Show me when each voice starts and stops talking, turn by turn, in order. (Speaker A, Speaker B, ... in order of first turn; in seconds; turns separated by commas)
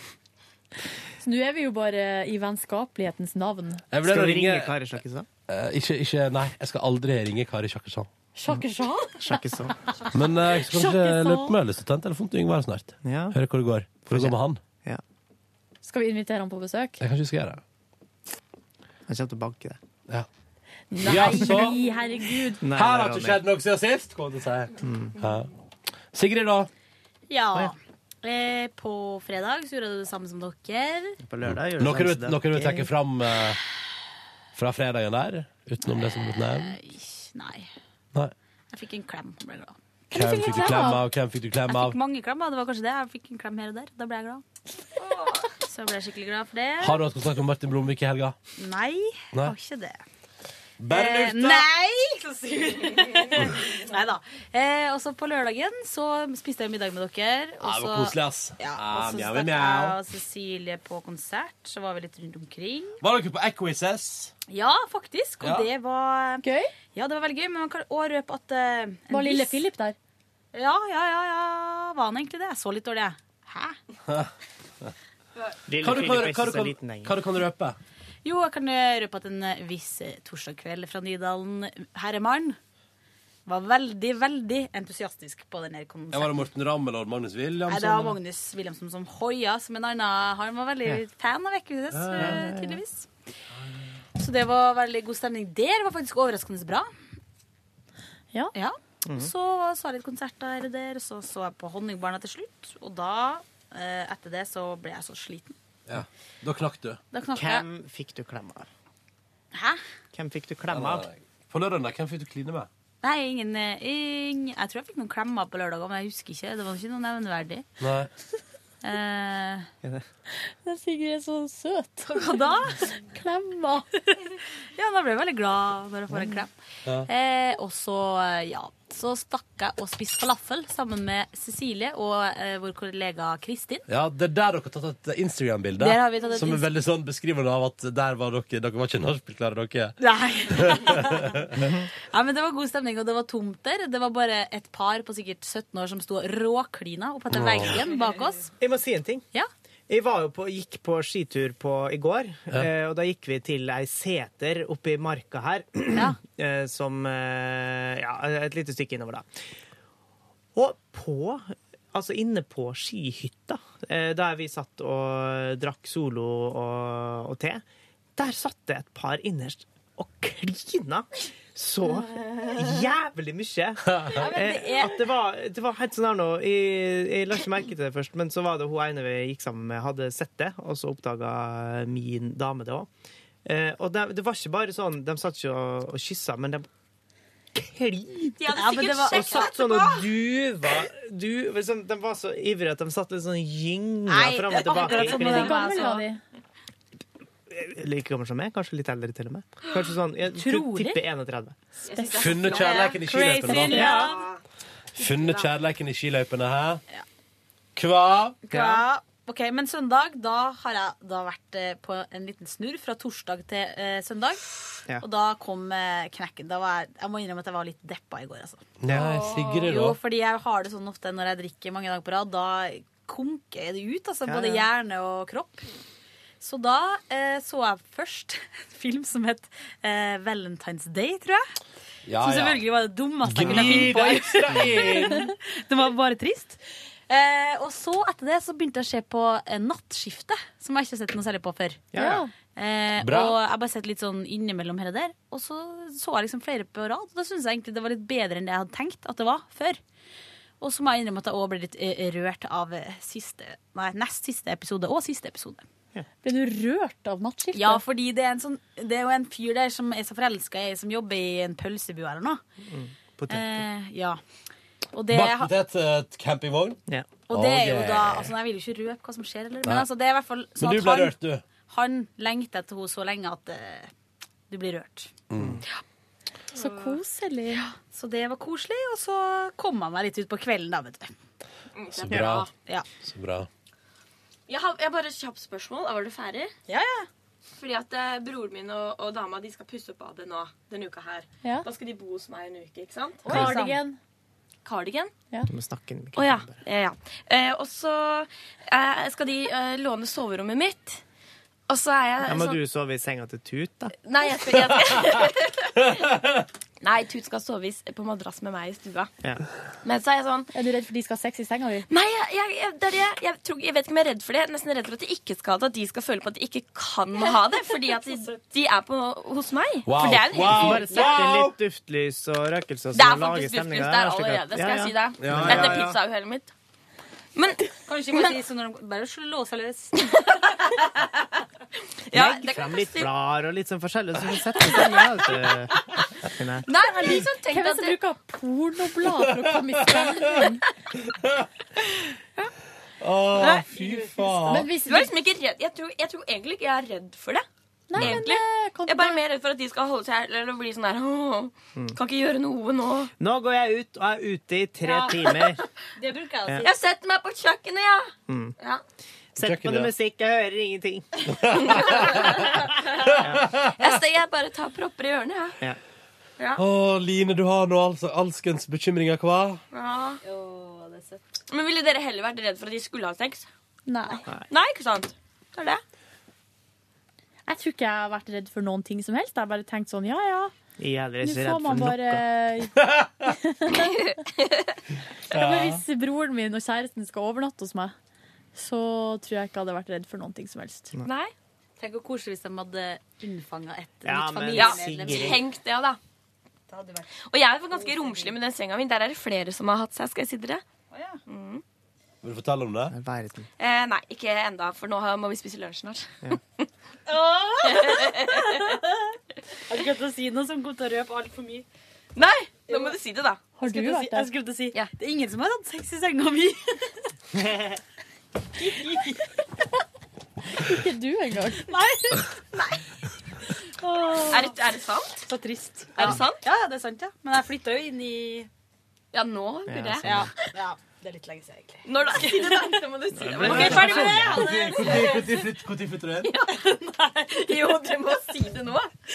Speaker A: 1.2-3.8, Speaker B: 3.9-4.8, Speaker C: 4.0-5.3, Speaker B: 5.5-8.1, Speaker A: 8.3-9.4, Speaker C: 9.2-9.8, Speaker B: 10.1-14.6, Speaker A: 10.6-11.6, Speaker C: 13.0-13.4, Speaker C: 14.1-15.0, Speaker A: 15.8-17.0, Speaker B: 17.0-17.6, Speaker C: 19.1-19.8, Speaker A: 20.9-22.6, Speaker B: 21.0-21.8, Speaker C: 22.6-23.4, Speaker B: 22.6-25.5, Speaker C: 24.8-25.1, Speaker B: 26.1-26.7, Speaker D: 27.3-31.2, Speaker C: 31.2-32.9, Speaker B: 31.5-33.6, Speaker B: 34.5-36.8, Speaker D: 36.2-37.7, Speaker D: 38.7-39.8, Speaker A: 40.1-41.0, Speaker B: 40.1-42.0, Speaker D: 41.7-44.4, Speaker E: 45.1-45.5, Speaker D: 45.6-47.0, Speaker B: 46.8-48.4, Speaker D: 48.6-50.0, Speaker B: 50.8-51.7, Speaker D: 50.9-63.0, Speaker E: 52.8-53.2, Speaker B: 57.6-60.0, Speaker B: 63.0-64.3, Speaker D: 64.5-69.6, Speaker B: 65.4-65.7, Speaker A: 66.4-66.7, Speaker A: 69.1-70.0, Speaker D: 70.5-73.8, Speaker C: 75.7-77.1, Speaker B: 75.8-77.8, Speaker D: 78.2-82.6, Speaker D: 83.5-86.4, Speaker B: 86.1-88.2, Speaker D: 87.7-93.1, Speaker B: 91.9-92.5, Speaker C: 92.2-92.8, Speaker B: 93.5-93.9, Speaker D: 94.2-96.9, Speaker D: 98.5-105.5, Speaker C: 99.1-99.3, Speaker B: 105.9-107.0, Speaker D: 107.1-107.7, Speaker C: 107.3-108.7, Speaker D: 109.5-109.8, Speaker C: 110.1-111.1, Speaker B: 110.7-112.7, Speaker D: 113.0-117.7, Speaker B: 117.8-118.1, Speaker D: 118.8-119.7, Speaker A: 120.5-124.2, Speaker D: 122.1-122.8, Speaker D: 124.8-126.5, Speaker C: 126.1-126.4, Speaker D: 127.0-133.8, Speaker B: 133.9-139.9, Speaker D: 135.8-136.7, Speaker D: 140.0-141.4, Speaker B: 140.5-141.6, Speaker C: 141.6-141.8, Speaker D: 142.1-148.5, Speaker B: 147.3-147.8, Speaker C: 148.6-149.2, Speaker C: 149.9-159.3, Speaker D: 155.9-156.2, Speaker C: 160.6-167.6, Speaker C: 168.2-182.9, Speaker D: 174.1-175.0, Speaker C: 183.4-186.7, Speaker C: 187.5-195.7, Speaker E: 188.4-190.1, Speaker D: 188.5-189.5, Speaker D: 194.1-196.1, Speaker A: 194.7-196.2, Speaker C: 197.5-201.6, Speaker A: 200.4-200.9, Speaker E: 201.8-204.4, Speaker D: 201.9-204.2, Speaker B: 202.1-203.9, Speaker A: 203.1-204.1, Speaker C: 203.6-204.1, Speaker B: 204.9-206.8, Speaker E: 205.0-205.5, Speaker B: 207.8-208.4, Speaker D: 208.4-218.6, Speaker C: 208.5-208.9, Speaker B: 218.8-220.0, Speaker E: 218.9-219.7, Speaker D: 219.6-225.7, Speaker C: 224.2-224.7, Speaker D: 226.4-231.6, Speaker B: 232.1-232.6, Speaker D: 232.1-249.8, Speaker B: 233.2-235.3, Speaker C: 233.5-233.9, Speaker C: 241.9-242.2, Speaker A: 241.9-242.3, Speaker B: 243.0-243.4, Speaker D: 250.6-255.6, Speaker A: 256.2-257.8, Speaker D: 257.5-262.4, Speaker C: 262.6-263.6, Speaker D: 263.3-264.2, Speaker D: 264.9-265.5, Speaker B: 265.1-266.8, Speaker D: 267.3-273.9, Speaker B: 267.3-268.3, Speaker B: 270.6-271.4, Speaker D: 274.5-275.1, Speaker B: 275.3-275.6, Speaker A: 276.5-277.6, Speaker E: 276.6-277.0, Speaker D: 277.8-281.1, Speaker E: 281.7-282.5, Speaker B: 281.9-282.5, Speaker C: 282.1-282.4, Speaker D: 282.6-282.9, Speaker B: 283.0-283.5, Speaker E: 284.5-286.5, Speaker D: 286.7-287.1, Speaker E: 287.5-293.6, Speaker D: 293.2-293.8, Speaker A: 293.3-294.0, Speaker E: 294.6-295.1, Speaker C: 295.5-296.6, Speaker E: 296.1-301.0, Speaker E: 301.7-302.6, Speaker C: 302.2-303.9, Speaker E: 304.0-306.0, Speaker E: 306.8-309.1, Speaker E: 309.8-310.5, Speaker A: 310.5-311.9, Speaker E: 311.9-321.1, Speaker B: 319.8-321.6, Speaker C: 320.1-326.0, Speaker E: 322.9-326.5, Speaker B: 325.2-325.9, Speaker E: 327.3-328.4, Speaker D: 327.8-330.1, Speaker E: 332.1-333.1, Speaker C: 332.1-336.6, Speaker E: 336.6-338.0, Speaker A: 336.9-340.6, Speaker B: 339.0-340.4, Speaker B: 341.0-341.5, Speaker B: 343.0-344.7, Speaker E: 343.3-344.1, Speaker A: 344.4-345.1, Speaker E: 344.8-353.1, Speaker A: 347.9-349.2, Speaker C: 353.2-355.6, Speaker D: 354.8-355.2, Speaker D: 356.0-356.6, Speaker E: 356.6-358.8, Speaker C: 358.3-358.6, Speaker C: 359.3-361.2, Speaker B: 359.4-359.9, Speaker B: 361.3-363.8, Speaker E: 361.6-363.1, Speaker C: 361.7-362.1, Speaker E: 363.7-365.6, Speaker B: 366.6-369.6, Speaker E: 369.7-370.2, Speaker D: 370.2-371.2, Speaker E: 371.5-373.5, Speaker A: 373.9-374.2, Speaker E: 374.5-375.8, Speaker A: 377.5-380.5, Speaker C: 380.8-382.2, Speaker A: 381.2-384.1, Speaker B: 382.8-383.3, Speaker A: 385.3-387.9, Speaker B: 385.3-385.8, Speaker A: 388.5-390.9, Speaker E: 391.0-391.3, Speaker D: 391.8-395.4, Speaker C: 394.0-395.4, Speaker E: 394.5-396.0, Speaker D: 396.7-397.1, Speaker E: 397.1-400.6, Speaker D: 397.7-398.3, Speaker D: 400.9-401.2, Speaker E: 401.3-401.6, Speaker B: 402.2-402.9, Speaker C: 402.9-403.5, Speaker E: 403.6-406.4, Speaker D: 407.1-408.0, Speaker E: 407.6-408.7, Speaker D: 409.7-411.6, Speaker E: 412.1-413.4, Speaker D: 412.7-412.9, Speaker A: 413.6-414.3, Speaker D: 413.6-416.8, Speaker E: 414.2-414.9, Speaker A: 420.5-421.7, Speaker D: 421.7-422.2, Speaker E: 424.1-425.2, Speaker E: 425.9-426.4, Speaker D: 426.0-428.5, Speaker E: 429.1-430.2, Speaker C: 429.7-430.3, Speaker D: 430.1-432.6, Speaker E: 431.8-435.1, Speaker C: 433.1-434.6, Speaker B: 433.4-436.3, Speaker D: 434.1-435.3, Speaker E: 436.2-438.9